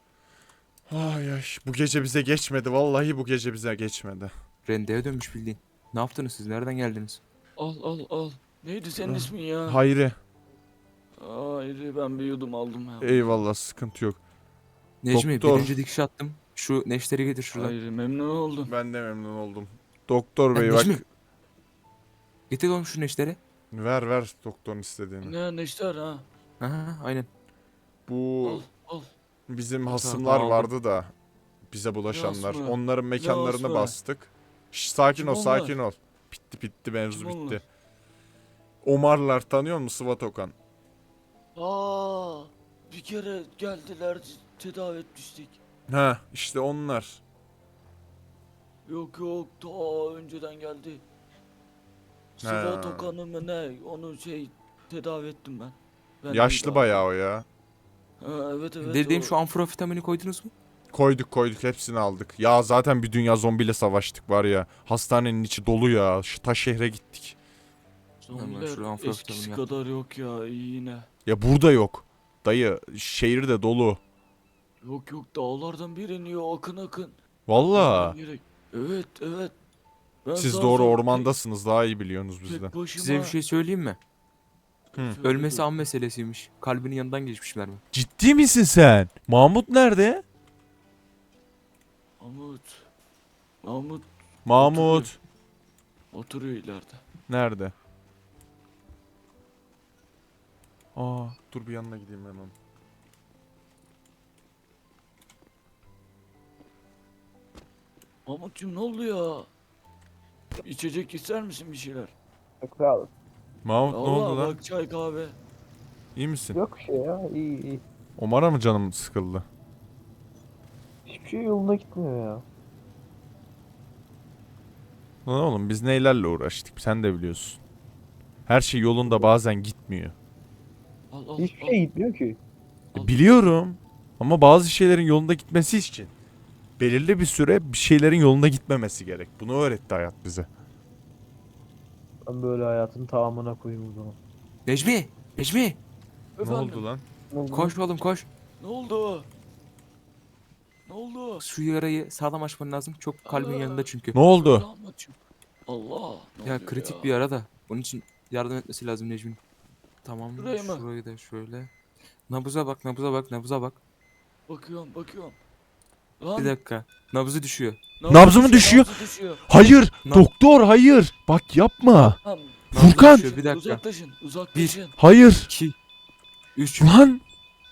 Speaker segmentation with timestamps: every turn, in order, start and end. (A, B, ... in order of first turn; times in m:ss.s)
0:00.9-0:04.3 A
0:04.6-0:07.2 B
0:07.6-0:09.8 C
0:09.0-0:10.2 A
0:11.2-0:13.3 C
0:13.0-0:14.2 A
0:15.0-0:17.7 B
0:15.1-0:15.7 A
0:17.5-0:18.7 C
0:18.6-0:21.0 A
0:20.5-0:21.0 B
0:22.5-0:23.4 B
0:23.7-0:25.3 A
0:25.2-0:26.2 C
0:26.6-0:27.3 B
0:28.1-0:28.6 A
0:28.4-0:29.1 C
0:29.5-0:31.1 A
0:29.9-0:30.7 B
0:31.7-0:37.6 A
0:32.1-0:33.9 C
0:35.2-0:35.8 C
0:37.1-0:37.6 C
0:38.8-0:40.5 A
0:41.6-0:45.6 C
0:45.9-0:47.2 A
0:48.8-0:51.0 C
0:52.4-0:57.0 C
0:52.4-0:53.1 A
0:56.3-0:57.4 A
0:58.2-0:59.3 C
0:58.8-1:00.5 B
1:00.9-1:07.4 A
1:08.2-1:11.1 C
1:08.3-1:09.6 B
1:11.2-1:14.0 A
1:14.8-1:17.2 C
1:17.5-1:18.2 A
1:17.7-1:19.5 C
1:20.2-1:21.3 C
1:20.3-1:22.7 A
1:22.5-1:23.3 C
1:23.0-1:24.0 B
1:24.9-1:25.7 C
1:25.2-1:27.8 B
1:27.9-1:30.2 A
1:32.2-1:32.9 C
1:33.6-1:35.1 C
1:34.4-1:35.2 A
1:36.1-1:37.0 C
1:37.3-1:37.7 A
1:40.9-1:42.5 A
1:48.2-1:49.5 C
1:50.6-1:52.1 C
1:52.6-1:53.1 D
1:53.6-1:54.6 A
1:53.9-1:55.4 C
1:56.1-1:56.6 A
1:56.5-1:57.8 D
1:58.2-1:59.4 A
2:01.1-2:02.4 D
2:05.2-2:07.6 A
2:08.5-2:10.1 A
2:09.0-2:09.3 D
2:11.1-2:11.8 C
2:11.4-2:12.4 D
2:12.9-2:13.2 C
2:12.9-2:16.1 A
2:16.8-2:20.5 A
2:22.3-2:24.2 D
2:24.6-2:25.8 B
2:26.4-2:26.8 C
2:26.4-2:27.0 A
2:27.3-2:27.7 D
2:27.5-2:28.3 B
2:28.6-2:29.3 C
2:30.8-2:31.4 C
2:31.4-2:34.1 B
2:33.2-2:35.2 C
2:34.1-2:34.6 A
2:35.7-2:37.1 C
2:36.4-2:39.4 B
2:40.0-2:41.7 B
2:40.4-2:40.8 C
2:42.3-2:43.8 B
2:44.5-2:45.4 C
2:46.2-2:46.5 C
2:46.4-2:47.8 B
2:48.0-2:49.4 C
2:48.1-2:48.9 A
2:49.4-2:52.2 A
2:52.0-2:54.9 C
2:52.7-2:53.2 A
2:52.7-2:53.8 B
2:54.5-2:54.8 B
2:55.0-2:55.5 A
2:55.5-2:55.7 B
2:56.6-2:57.0 B
2:56.8-2:57.2 A